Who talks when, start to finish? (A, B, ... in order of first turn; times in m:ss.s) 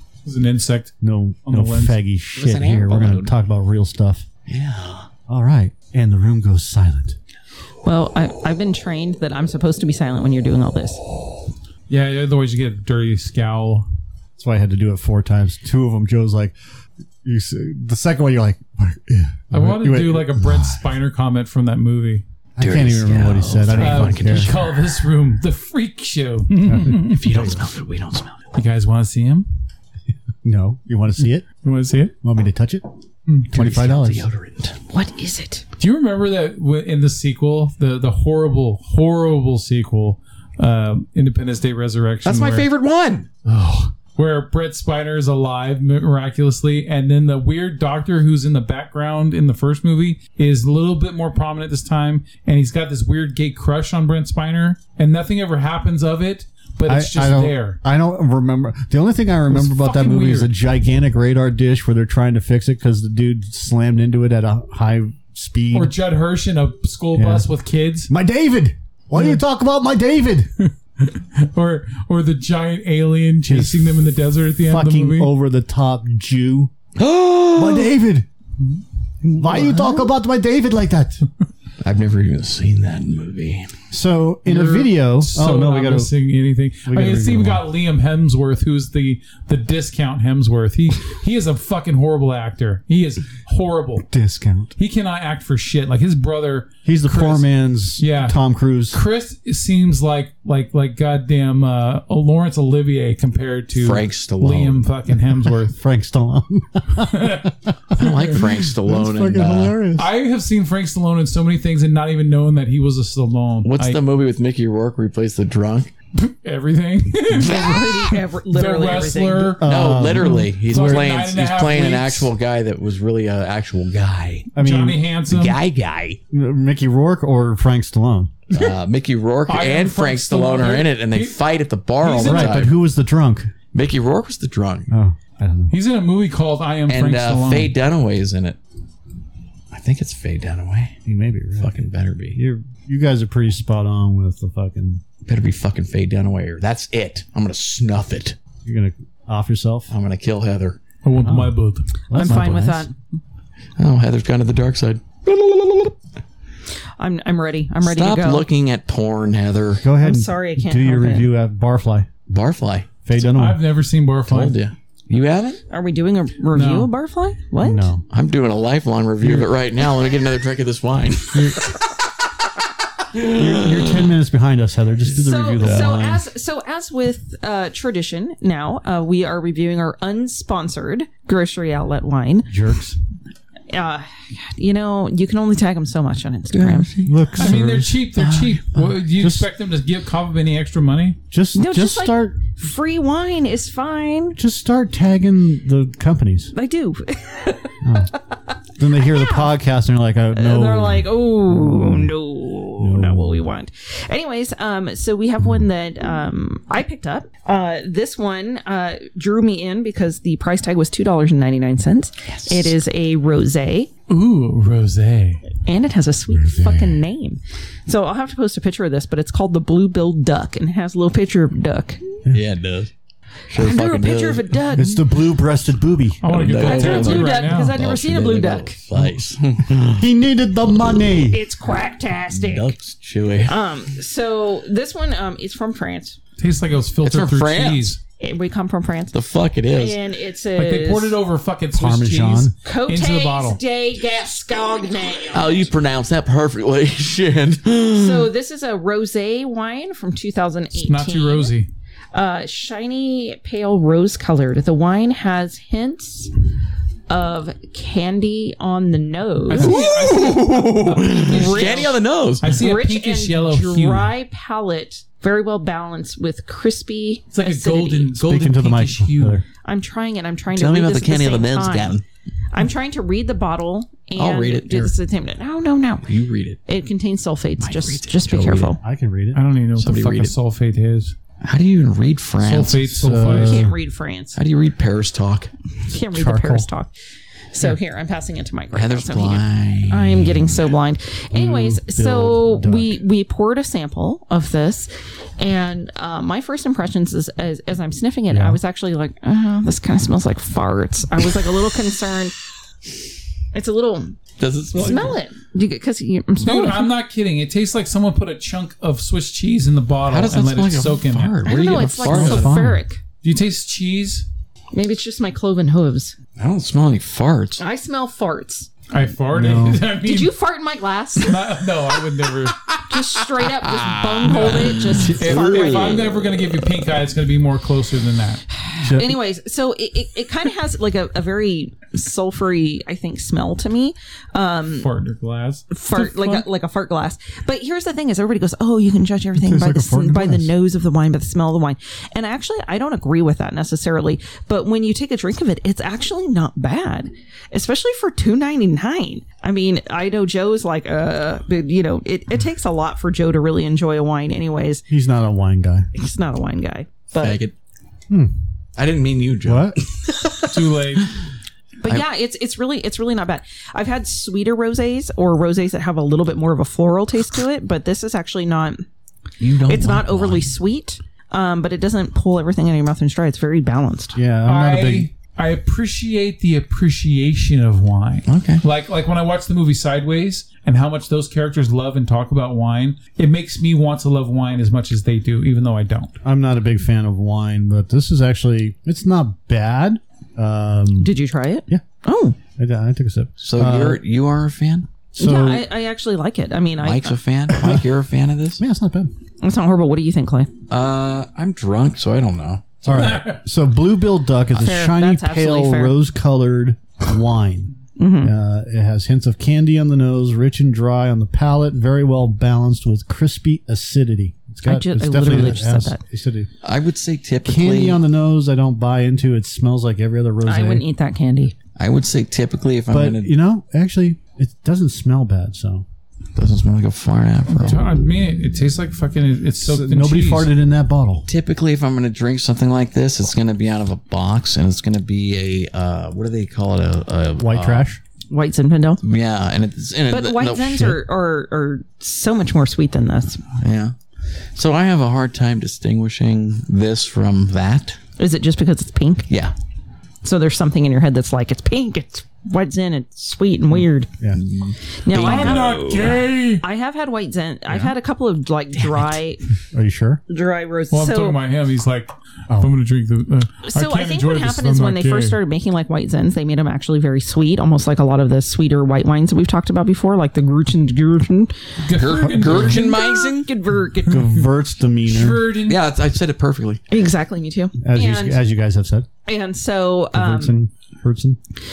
0:00.2-0:01.0 A
0:01.0-0:04.3 B
0:01.5-0:02.0 A
0:02.3-0:03.4 C
0:04.5-0:05.1 C
0:05.3-0:07.2 B
0:07.8-0:11.0 D
0:11.9-0:13.9 A
0:14.4-0:16.5 B
0:17.2-0:20.9 B
0:19.5-0:22.2 A
0:22.6-0:24.5 B
0:22.6-0:24.7 C
0:23.8-0:27.2 A
0:26.6-0:27.7 B
0:27.0-0:28.4 C
0:28.5-0:29.5 A
0:30.4-0:31.4 B
0:31.6-0:32.1 A
0:32.2-0:32.8 B
0:33.5-0:34.3 B
0:33.5-0:34.8 C
0:34.9-0:35.6 D
0:35.8-0:42.7 A
0:42.2-0:43.3 C
0:43.5-0:57.8 A
0:56.9-1:05.9 B
0:59.5-1:00.5 A
1:05.7-1:08.1 A
1:07.1-1:07.5 B
1:08.1-1:10.5 B
1:11.0-1:15.3 A
1:13.4-1:14.0 B
1:14.7-1:16.7 B
1:17.0-1:17.9 C
1:17.5-1:18.3 B
1:19.2-1:21.2 B
1:19.4-1:20.1 A
1:21.8-1:23.7 C
1:23.9-1:26.1 B
1:24.5-1:34.1 A
1:26.9-1:27.6 B
1:34.1-1:34.8 B
1:34.8-1:38.4 A
1:36.8-1:39.0 B
1:38.9-1:45.8 A
1:43.8-1:44.9 C
1:45.7-1:50.1 B
1:47.0-1:48.4 A
1:48.0-1:49.8 C
1:50.0-1:54.0 A
1:53.6-1:55.9 C
1:56.2-1:58.0 A
1:57.4-1:59.6 D
1:58.5-2:02.3 A
1:59.6-2:01.1 B
1:59.6-2:04.5 C
2:04.6-2:05.0 B
2:04.6-2:05.6 A
2:05.3-2:06.2 C
2:06.3-2:08.4 B
2:08.5-2:12.7 C
2:09.5-2:11.4 A
2:12.0-2:12.7 A
2:12.2-2:13.5 B
2:13.7-2:14.9 C
2:14.9-2:15.7 B
2:15.7-2:17.7 A
2:16.9-2:18.6 C
2:19.7-2:21.0 C
2:21.0-2:21.7 B
2:21.6-2:22.4 C
2:22.3-2:25.0 B
2:25.3-2:28.4 C
2:28.6-2:29.9 B
2:29.9-2:30.8 C
2:31.0-2:31.9 A
2:31.2-2:31.6 B
2:32.1-2:32.9 B
2:32.1-2:33.2 D
2:33.8-2:35.9 C
2:37.0-2:38.5 D
2:37.8-2:39.8 C
2:39.8-2:42.1 B
2:40.0-2:41.3 D
2:42.3-2:42.9 C
2:43.0-2:43.6 B
2:43.2-2:44.6 A
2:44.3-2:45.6 C
2:45.7-2:47.9 D
2:46.5-2:46.9 A
2:47.6-2:48.0 B
2:48.1-2:51.6 C
2:51.3-2:51.6 A
2:53.1-2:53.9 C
2:53.2-2:56.2 B
2:55.2-3:02.5 D
2:55.6-2:55.9 C
3:02.5-3:03.0 B
3:03.7-3:06.9 D
3:06.5-3:07.6 C
3:07.0-3:08.2 B
3:07.4-3:11.2 A
3:08.2-3:08.5 C
3:08.7-3:09.5 B
3:11.3-3:12.4 B
3:11.6-3:14.4 D
3:14.4-3:16.5 B
3:16.5-3:17.8 D
3:17.8-3:18.1 B
3:18.8-3:22.1 B
3:19.0-3:19.5 D
3:20.3-3:33.9 D
3:22.8-3:23.4 B
3:32.3-3:32.7 C
3:34.1-3:35.4 A
3:35.6-3:42.0 D
3:36.4-3:36.9 B
3:42.3-3:42.9 C
3:43.5-3:44.8 C
3:43.6-3:45.0 D
3:44.8-3:46.3 B
3:46.2-3:47.8 A
3:46.3-3:50.0 C
3:46.6-3:48.8 D
3:48.9-3:51.4 B
3:51.3-3:52.7 D
3:52.3-3:53.6 C
3:53.5-3:56.2 D
3:56.4-3:58.0 A
3:57.0-3:58.0 C
3:58.2-3:59.2 D
3:59.1-4:00.0 C
3:59.7-4:01.2 D
4:00.6-4:03.6 A
4:01.7-4:02.5 B
4:02.6-4:05.7 D
4:05.3-4:08.3 C
4:08.0-4:11.5 D
4:10.8-4:11.7 A
4:12.1-4:16.3 D
4:17.1-4:20.4 D
4:19.5-4:24.1 A
4:19.6-4:22.6 C
4:21.1-4:22.0 D
4:22.5-4:28.1 D
4:27.3-4:29.4 A
4:28.2-4:29.4 B
4:29.6-4:32.0 D
4:30.5-4:32.0 C
4:32.5-4:36.1 D
4:34.2-4:35.0 C
4:36.1-4:36.6 C
4:36.7-4:38.8 D
4:37.6-4:38.8 C
4:38.8-4:39.4 B
4:39.3-4:41.2 A
4:39.8-4:40.4 C
4:41.4-4:43.2 C
4:42.4-4:43.7 A
4:43.0-4:43.8 B
4:43.3-4:44.4 D
4:44.4-4:45.5 C
4:45.9-4:46.7 B
4:45.9-4:46.9 D
4:47.5-5:02.3 D
4:48.7-4:50.7 C
4:51.3-4:53.0 B
4:58.3-4:58.6 B
5:03.5-5:04.2 D
5:04.4-5:05.2 C
5:04.7-5:06.9 D
5:06.4-5:11.4 A
5:10.1-5:12.6 C
5:11.4-5:13.0 D
5:12.0-5:12.8 B
5:12.1-5:12.4 A
5:13.2-5:14.3 A
5:14.7-5:16.2 D
5:16.4-5:17.6 C
5:17.6-5:18.7 D
5:18.9-5:20.4 A
5:19.3-5:19.9 B
5:20.0-5:21.4 D
5:21.2-5:22.7 A
5:22.9-5:26.0 D
5:23.7-5:26.0 C
5:24.2-5:28.4 A
5:28.7-5:34.9 D
5:28.8-5:29.2 B
5:34.8-5:36.4 A
5:35.7-5:54.8 D
5:39.4-5:40.5 B
5:54.9-5:55.9 B
5:55.9-5:57.4 D
5:57.2-5:57.6 C
5:58.8-6:00.5 C
5:59.4-5:59.8 B
6:00.5-6:01.1 A
6:01.8-6:08.8 D
6:09.4-6:10.5 C
6:09.7-6:14.2 D
6:14.2-6:15.1 B
6:14.5-6:26.1 A
6:18.3-6:18.6 C
6:26.2-6:31.1 B
6:31.0-6:32.4 D
6:32.6-6:34.0 B
6:33.4-6:34.9 C
6:35.1-6:35.7 B
6:35.2-6:37.2 D
6:36.8-6:38.6 C
6:37.5-6:37.9 B
6:38.6-6:39.1 B
6:39.4-6:40.5 D
6:40.7-6:43.1 C
6:42.8-6:56.5 B
6:42.9-6:43.4 A
6:44.6-6:46.0 D
6:48.0-6:48.3 D
6:54.6-6:56.0 D
6:56.6-6:58.0 C
6:57.4-7:00.8 B
7:00.4-7:01.5 D
7:01.8-7:03.3 C
7:02.9-7:05.9 B
7:06.4-7:07.8 C
7:07.5-7:10.5 A
7:09.6-7:11.3 B
7:11.3-7:17.9 C
7:17.4-7:18.0 B
7:18.3-7:19.0 D
7:19.0-7:21.0 C
7:20.1-7:23.4 D
7:23.6-7:24.0 C
7:24.5-7:28.0 C
7:28.2-7:29.3 D
7:29.3-7:29.5 C
7:30.2-7:34.1 D
7:34.3-7:36.2 C
7:35.0-7:39.4 D
7:35.2-7:36.6 A
7:38.8-7:39.2 C
7:39.7-7:40.2 B
7:40.3-7:41.4 D
7:40.9-7:45.4 A
7:43.6-7:51.6 D
7:51.8-7:52.8 A
7:51.9-7:53.5 C
7:52.4-7:54.2 D
7:54.0-7:55.5 B
7:55.1-7:55.8 A
7:55.7-7:56.8 C
7:56.9-7:58.4 D
7:57.8-7:59.1 B
7:59.3-8:00.6 D
8:00.1-8:01.4 B